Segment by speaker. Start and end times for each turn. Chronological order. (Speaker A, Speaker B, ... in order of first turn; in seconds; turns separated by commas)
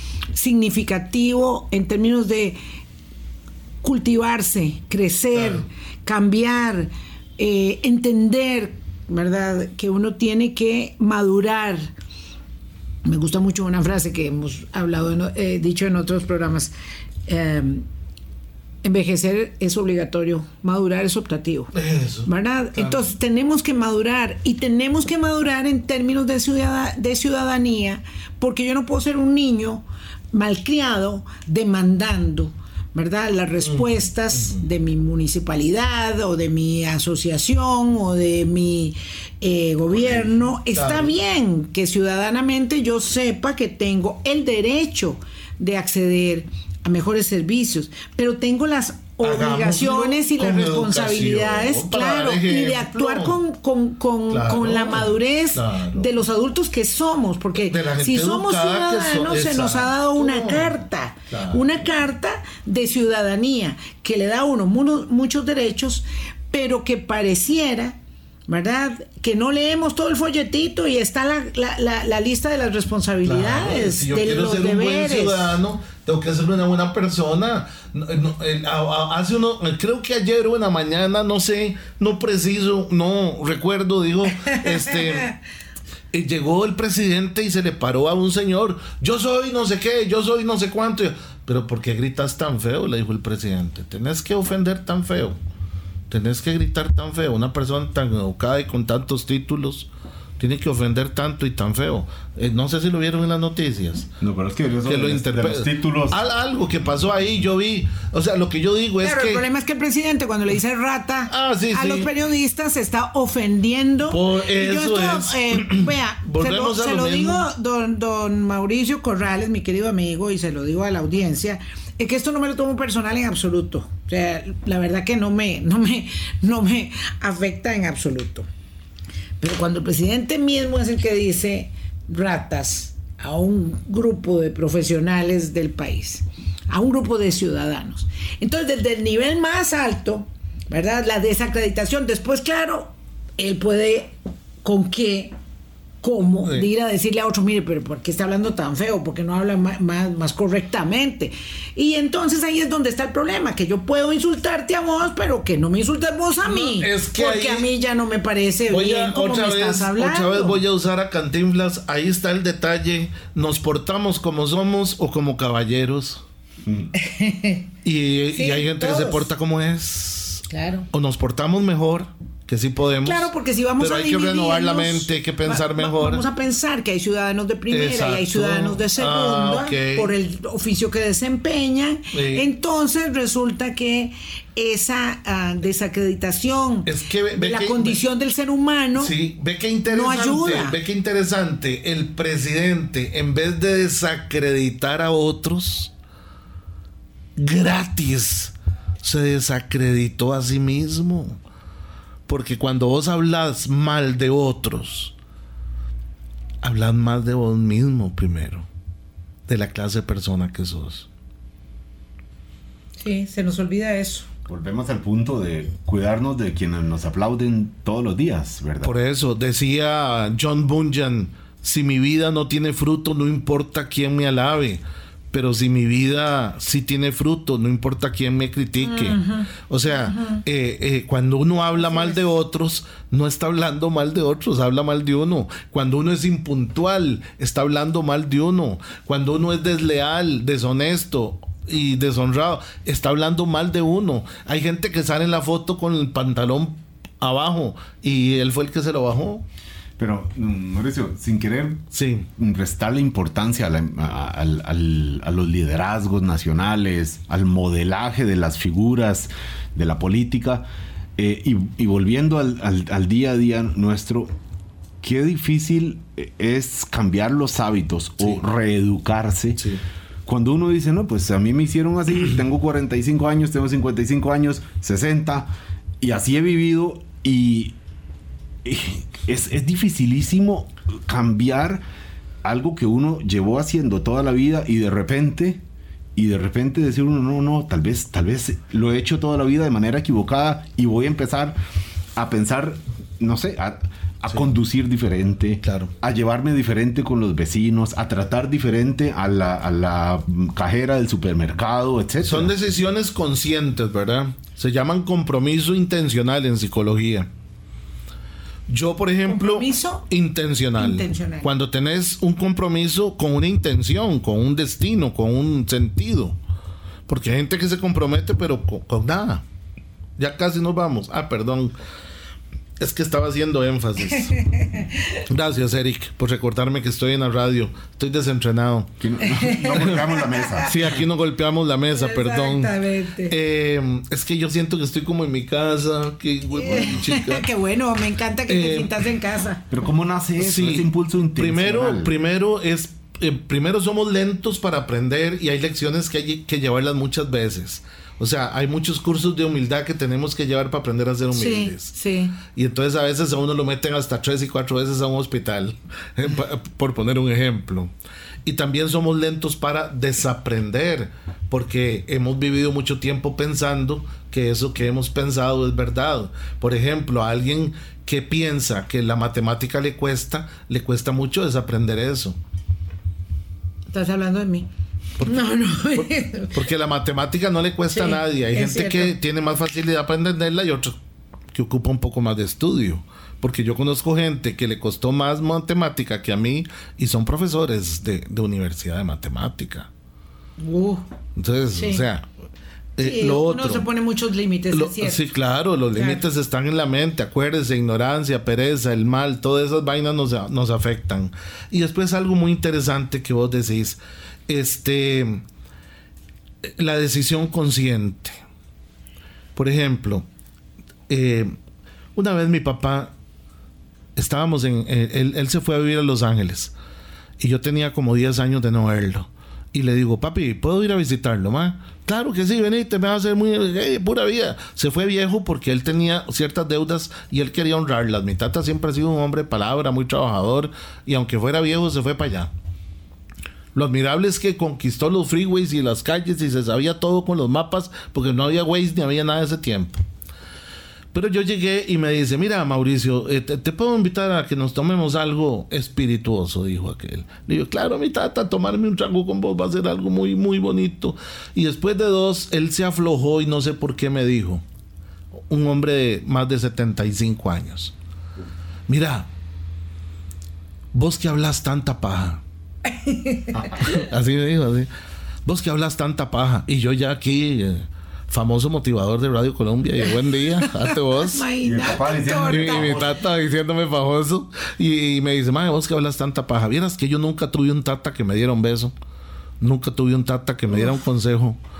Speaker A: 0.3-2.6, Speaker A: 3.8-11.9, Speaker B: 5.3-5.6, Speaker A: 13.0-16.7, Speaker A: 17.2-17.9, Speaker A: 18.8-21.7, Speaker B: 21.7-23.0, Speaker A: 22.2-75.5, Speaker B: 40.7-41.1, Speaker B: 49.2-53.4, Speaker B: 54.3-56.1, Speaker B: 57.6-61.7, Speaker B: 73.2-85.3, Speaker B: 86.1-95.4, Speaker B: 96.1-104.1, Speaker C: 104.2-106.2, Speaker B: 104.8-109.4, Speaker A: 109.0-128.5, Speaker B: 111.3-112.1, Speaker B: 114.1-117.5, Speaker A: 129.4-145.3, Speaker A: 146.0-160.6, Speaker B: 156.4-157.7, Speaker B: 158.7-166.2, Speaker A: 166.9-167.7, Speaker B: 167.8-176.2, Speaker A: 168.3-169.2, Speaker A: 170.5-170.9, Speaker A: 173.0-189.1, Speaker B: 177.7-180.1, Speaker B: 182.1-182.5, Speaker B: 186.8-188.0, Speaker B: 188.9-195.9, Speaker A: 189.9-190.8, Speaker B: 197.4-201.4, Speaker B: 202.3-205.1, Speaker B: 206.6-208.7, Speaker B: 209.5-211.1, Speaker A: 213.0-214.2, Speaker C: 214.5-218.9, Speaker B: 218.8-224.8, Speaker B: 225.3-249.4, Speaker A: 228.8-229.5, Speaker A: 230.0-230.4, Speaker A: 231.8-232.1, Speaker C: 250.0-251.8, Speaker B: 251.9-252.3, Speaker C: 252.3-260.6, Speaker C: 261.2-264.3, Speaker C: 265.0-269.6, Speaker C: 270.2-277.7, Speaker C: 278.6-281.8, Speaker C: 282.4-285.6, Speaker C: 286.1-291.6, Speaker C: 292.1-302.5, Speaker B: 295.6-295.9, Speaker B: 302.2-307.3, Speaker B: 308.7-316.4, Speaker A: 309.3-310.1, Speaker A: 310.8-311.5, Speaker B: 317.1-319.4, Speaker B: 320.2-321.7, Speaker B: 322.8-324.5, Speaker A: 324.4-324.9, Speaker B: 325.2-328.9, Speaker C: 329.0-330.7, Speaker A: 329.2-330.7, Speaker B: 329.7-330.0, Speaker B: 330.6-332.7, Speaker A: 331.9-333.3, Speaker B: 333.2-337.4, Speaker A: 336.5-339.6, Speaker B: 338.5-339.0, Speaker C: 339.7-342.1, Speaker B: 340.4-351.9, Speaker A: 351.3-352.4, Speaker B: 352.4-357.9, Speaker B: 358.4-372.4, Speaker A: 373.9-374.7, Speaker B: 375.2-380.9, Speaker A: 375.2-376.5, Speaker A: 377.9-379.1, Speaker B: 381.5-389.9, Speaker A: 390.6-391.0, Speaker B: 391.4-392.2, Speaker A: 391.8-392.0, Speaker B: 393.0-393.9, Speaker A: 393.0-395.2, Speaker B: 394.7-405.4, Speaker A: 395.9-396.2, Speaker B: 406.6-408.4, Speaker B: 409.5-410.2, Speaker B: 411.1-411.5, Speaker B: 412.1-413.1, Speaker B: 414.1-416.7, Speaker B: 417.4-432.5, Speaker B: 433.7-440.0, Speaker B: 441.1-454.6, Speaker B: 455.5-457.9, Speaker B: 458.9-459.3, Speaker B: 460.9-462.4, Speaker A: 462.9-463.8, Speaker B: 463.8-464.9, Speaker B: 465.4-471.4, Speaker A: 470.6-473.1, Speaker C: 471.6-473.1, Speaker B: 472.5-478.9, Speaker B: 479.6-481.6